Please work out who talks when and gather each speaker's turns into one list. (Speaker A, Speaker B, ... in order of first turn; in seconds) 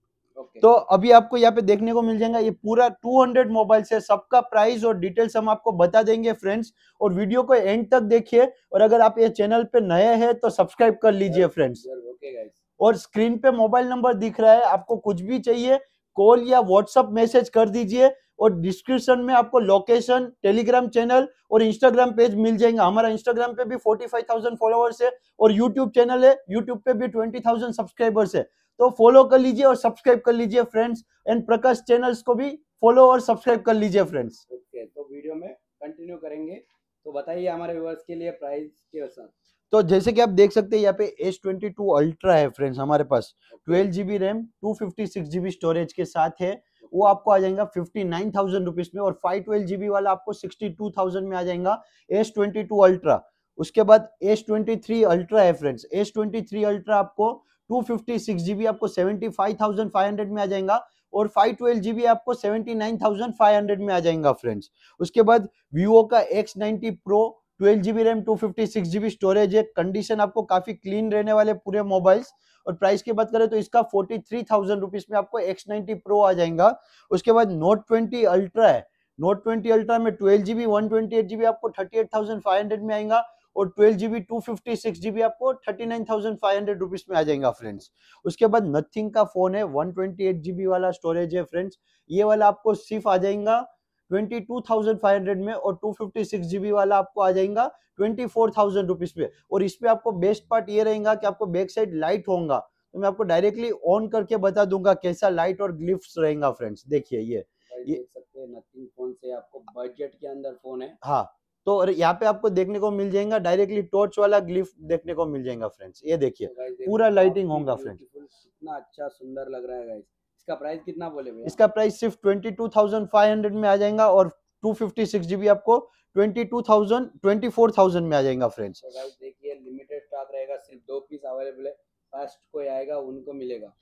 Speaker A: 0.3-0.7, 11.3-12.6, 34.5-39.3, 43.5-43.9, 46.8-47.2, 107.7-111.0, 116.4-121.6, 128.8-133.7
Speaker B: 0.6-11.8, 12.8-34.4, 39.7-108.0, 111.0-118.0, 121.4-128.8